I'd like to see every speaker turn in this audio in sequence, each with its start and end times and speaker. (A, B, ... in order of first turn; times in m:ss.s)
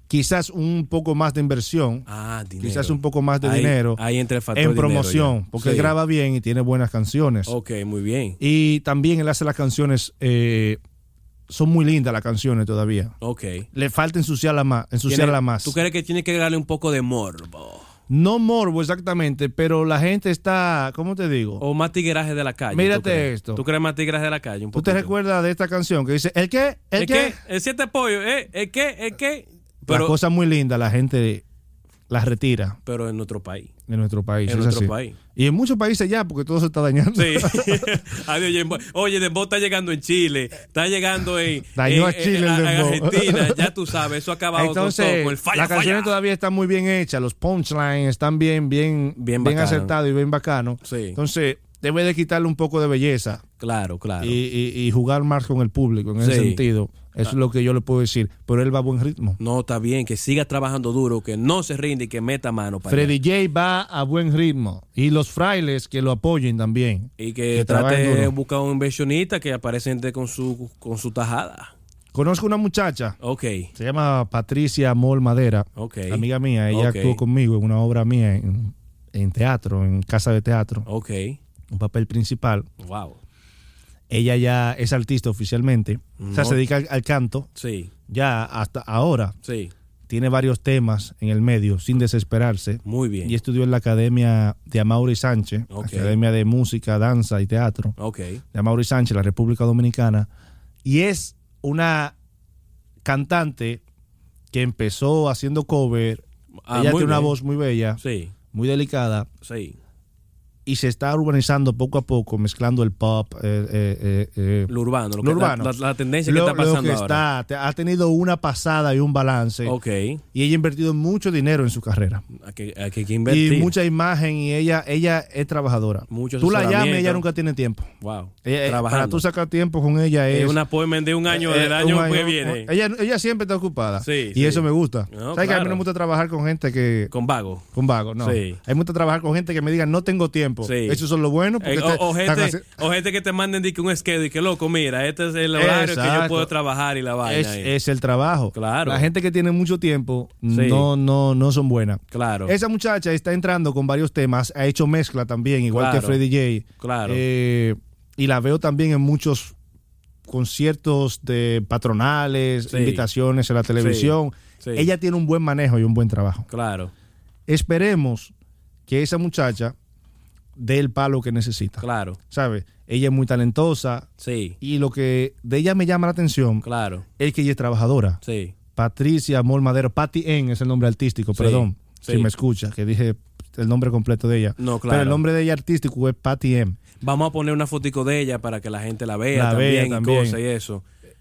0:00.1-0:02.1 A
0:02.1-0:05.9 B
0:02.6-0:04.0 A
0:04.5-0:07.5 A
0:07.5-0:08.4 B
0:08.4-0:10.8 A
0:11.5-0:13.1 A
0:13.2-0:13.7 B
0:13.7-0:15.8 A
0:15.1-0:17.9 B
0:18.1-0:21.6 A
0:21.6-0:25.1 B
0:22.7-0:23.6 A
0:24.8-0:27.4 A
0:27.0-0:30.2 B
0:29.9-0:31.4 A
0:32.1-0:32.8 A
0:32.9-0:33.7 B
0:33.9-0:37.9 A
0:34.5-0:35.2 B
0:37.2-0:46.1 B
0:41.8-0:43.7 A
0:44.5-0:53.4 A
0:49.2-0:49.9 B
0:50.8-0:51.2 B
0:53.6-0:54.4 B
0:54.2-0:59.4 A
0:56.2-0:56.6 B
0:59.4-1:03.2 B
1:02.9-1:08.3 A
1:07.2-1:11.7 B
1:12.1-1:13.2 A
1:13.2-1:13.7 B
1:13.8-1:20.9 A
1:15.8-1:17.2 B
1:20.9-1:21.4 B
1:21.7-1:22.7 A
1:22.8-1:23.2 B
1:24.1-1:27.5 A
1:26.2-1:26.6 B
1:27.6-1:27.9 B
1:28.1-1:29.4 A
1:29.4-1:29.7 B
1:30.1-1:38.0 A
1:32.8-1:33.4 B
1:35.7-1:36.2 B
1:38.0-1:38.4 B
1:38.5-1:40.3 A
1:40.8-1:42.2 A
1:43.0-1:43.8 A
1:44.5-1:48.0 A
1:46.7-1:47.4 B
1:48.0-1:48.3 B
1:48.5-1:49.3 A
1:49.4-1:49.8 B
1:50.7-1:55.7 A
1:54.7-1:57.2 B
1:56.2-1:59.8 A
1:59.6-2:00.2 B
2:00.3-2:02.2 A
2:02.3-2:03.7 B
2:03.3-2:07.9 A
2:06.1-2:07.2 B
2:08.0-2:09.2 B
2:08.4-2:10.6 A
2:10.3-2:12.7 B
2:11.3-2:17.1 A
2:14.0-2:15.8 B
2:17.1-2:17.6 B
2:17.7-2:22.7 A
2:18.2-2:18.6 B
2:20.6-2:21.0 B
2:21.6-2:27.7 B
2:25.6-2:26.5 A
2:27.2-2:39.6 A
2:28.5-2:29.1 B
2:30.5-2:30.9 B
2:32.1-2:32.5 B
2:35.7-2:36.2 B
2:36.8-2:37.2 B
2:40.3-2:46.5 A
2:42.7-2:43.0 B
2:43.8-2:44.9 B
2:46.5-2:46.9 B
2:47.5-2:48.3 A
2:48.9-2:49.8 A
2:50.6-2:54.1 A
2:51.8-2:52.2 B
2:54.2-2:54.6 B
2:54.6-2:56.6 A
2:56.6-2:57.0 B
2:57.2-2:58.2 A
2:58.2-2:58.5 B
2:58.8-3:06.8 A
3:01.4-3:02.3 B
3:04.6-3:05.2 B
3:07.0-3:10.8 B
3:09.3-3:10.4 A